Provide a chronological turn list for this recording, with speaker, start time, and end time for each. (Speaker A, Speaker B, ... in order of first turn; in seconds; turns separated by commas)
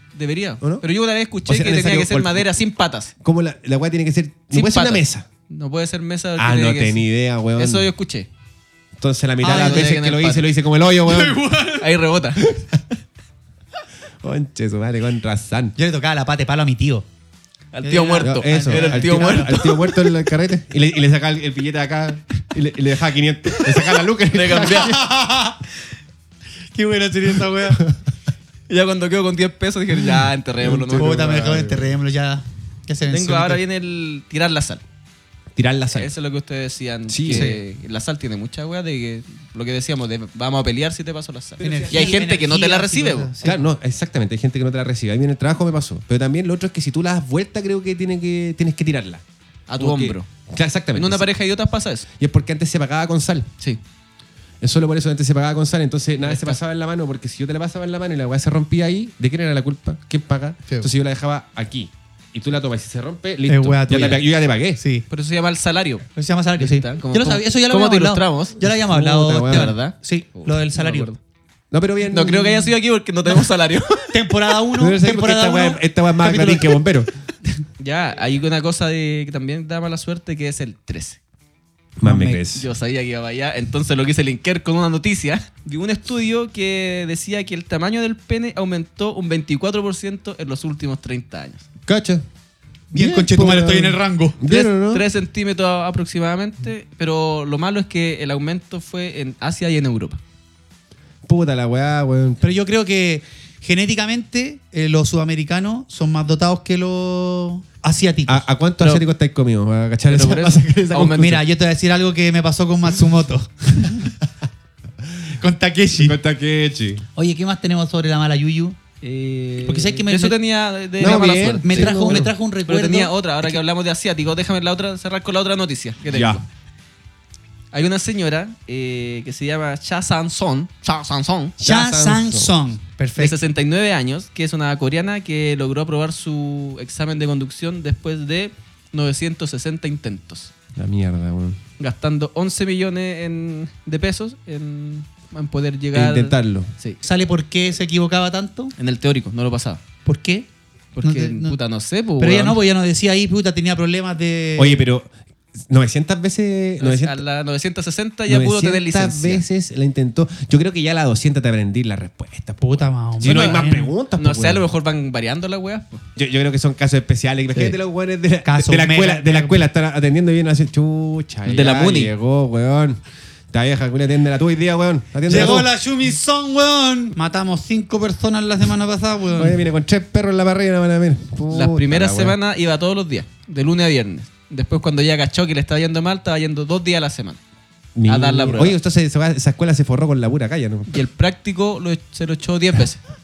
Speaker A: 0.1-3.1, Speaker B: 1.4-2.5, Speaker B: 3.2-5.2, Speaker A: 4.5-7.0, Speaker B: 6.4-7.9, Speaker A: 7.5-8.3, Speaker B: 9.0-11.4, Speaker C: 9.4-9.9, Speaker A: 9.4-10.4, Speaker C: 11.0-11.9, Speaker A: 11.8-12.4, Speaker B: 14.2-15.8, Speaker C: 15.8-17.1, Speaker A: 17.7-19.7, Speaker C: 17.8-19.6, Speaker B: 18.2-25.0, Speaker A: 24.3-25.0, Speaker C: 24.6-25.6, Speaker C: 26.7-27.8, Speaker A: 28.7-31.4, Speaker B: 30.6-31.8, Speaker C: 30.9-33.6, Speaker A: 33.1-34.8, Speaker B: 35.5-36.1, Speaker A: 35.9-43.3, Speaker B: 37.1-37.5, Speaker C: 37.3-37.6, Speaker B: 41.6-42.2, Speaker C: 41.6-43.6, Speaker B: 43.4-49.2, Speaker A: 49.7-50.3, Speaker B: 49.8-51.3, Speaker A: 50.9-52.1, Speaker B: 52.2-53.5, Speaker B: 54.6-64.8, Speaker A: 56.2-56.6, Speaker C: 63.5-65.0, Speaker A: 65.1-66.0, Speaker C: 66.2-71.1, Speaker A: 66.6-68.6, Speaker B: 68.7-69.7, Speaker A: 69.5-71.2, Speaker B: 71.7-72.4, Speaker A: 72.1-74.1, Speaker C: 72.2-72.7, Speaker C: 74.1-76.8, Speaker B: 74.8-77.1, Speaker A: 77.8-81.2, Speaker B: 82.0-82.7, Speaker C: 82.0-82.4, Speaker A: 82.5-91.6, Speaker B: 91.9-92.2, Speaker C: 92.9-94.4, Speaker B: 92.9-95.0, Speaker A: 94.4-100.2, Speaker B: 101.2-102.4, Speaker C: 102.4-108.5, Speaker B: 108.3-111.3, Speaker A: 110.1-111.4, Speaker C: 111.1-114.1, Speaker C: 115.4-116.2, Speaker B: 116.0-117.0, Speaker C: 117.2-118.8, Speaker A: 119.0-126.4, Speaker C: 119.6-120.4, Speaker C: 121.0-123.5, Speaker B: 121.0-122.3, Speaker B: 126.1-126.4, Speaker A: 127.7-131.6, Speaker B: 131.6-132.5, Speaker C: 131.6-133.4, Speaker A: 133.2-140.5, Speaker B: 140.7-141.6, Speaker A: 141.8-147.0, Speaker B: 145.9-146.7, Speaker C: 147.0-148.7, Speaker A: 148.8-149.8, Speaker C: 150.0-150.5, Speaker A: 150.9-152.6, Speaker C: 151.0-151.6, Speaker C: 152.2-154.8, Speaker B: 154.6-155.1, Speaker B: 155.7-157.2, Speaker A: 156.8-159.4, Speaker B: 158.3-164.7, Speaker C: 162.6-163.9, Speaker A: 163.2-163.6, Speaker A: 164.2-166.0, Speaker B: 166.2-173.0, Speaker C: 168.4-169.6, Speaker A: 171.4-172.1, Speaker B: 173.5-175.7, Speaker C: 175.3-179.6, Speaker B: 179.3-182.3, Speaker A: 181.5-187.4, Speaker B: 187.9-191.0, Speaker A: 188.1-188.8, Speaker A: 190.9-193.0